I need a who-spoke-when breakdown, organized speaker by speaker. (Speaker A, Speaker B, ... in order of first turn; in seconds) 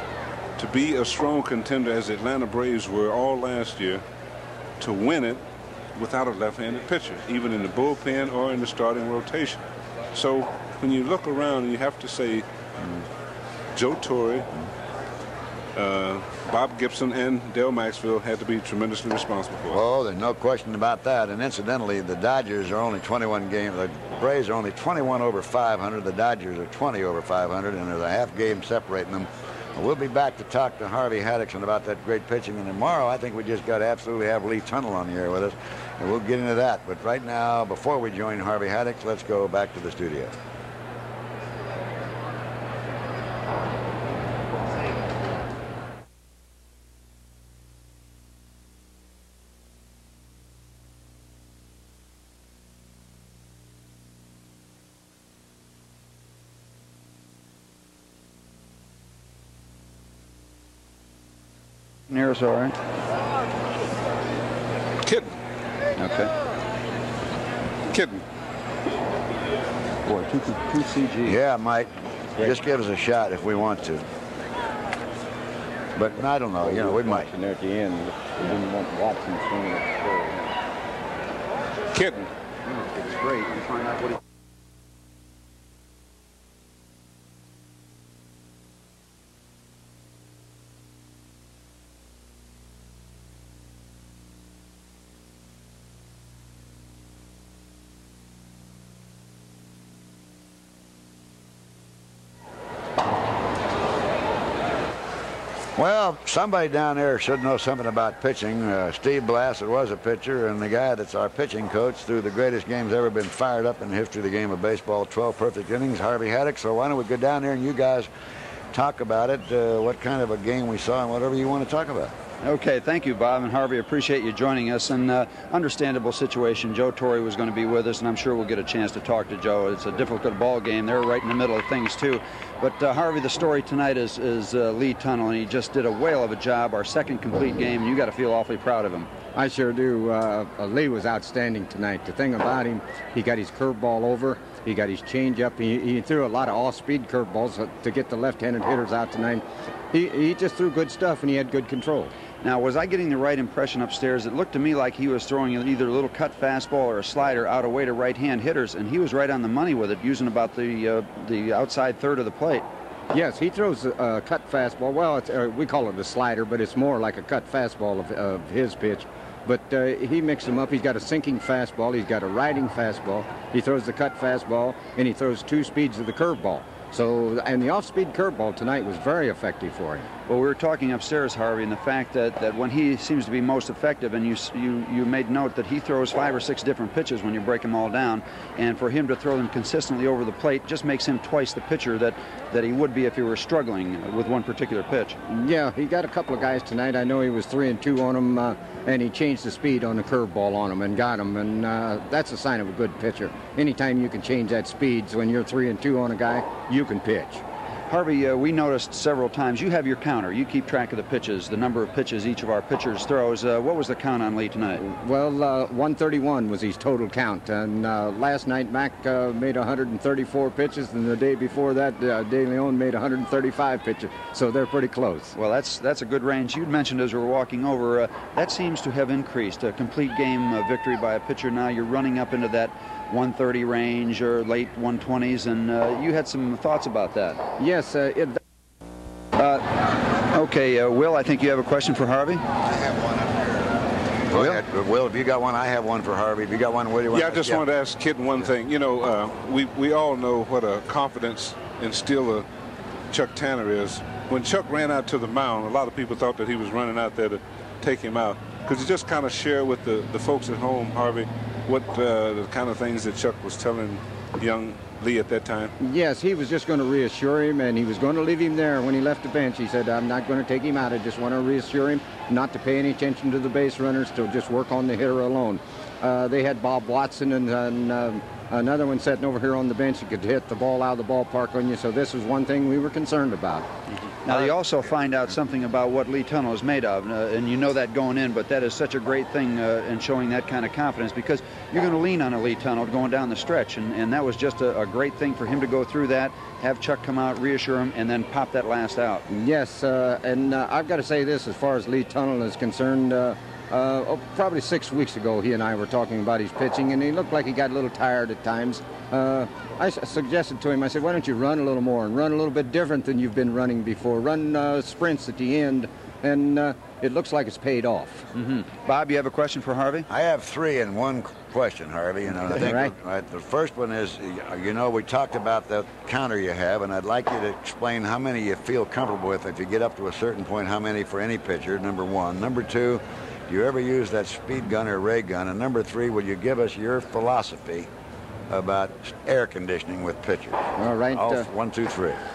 Speaker A: 0.6-4.0, 4.8-5.4, 5.9-12.4, 13.7-14.5, 15.8-19.8, 65.0-65.3, 67.9-68.2, 81.9-82.3, 247.1-252.4, 253.1-265.7
Speaker B: 19.7-40.3, 71.2-74.0, 76.0-77.3, 105.8-118.1, 118.7-122.1, 242.6-247.6, 320.1-337.9, 338.5-342.2
Speaker C: 62.1-62.8, 66.0-66.3, 70.0-71.3, 82.7-84.2, 122.4-139.1, 152.4-162.7, 180.3-195.2, 207.9-214.8, 225.3-237.4, 239.4-242.4, 244.3-244.6, 284.2-299.2, 318.3-320.1
Speaker D: 76.6-80.5, 139.3-152.1, 163.1-180.1, 195.3-207.4, 214.8-225.3, 237.6-238.4, 265.8-283.7, 299.3-318.2, 322.6-322.9, 340.8-341.4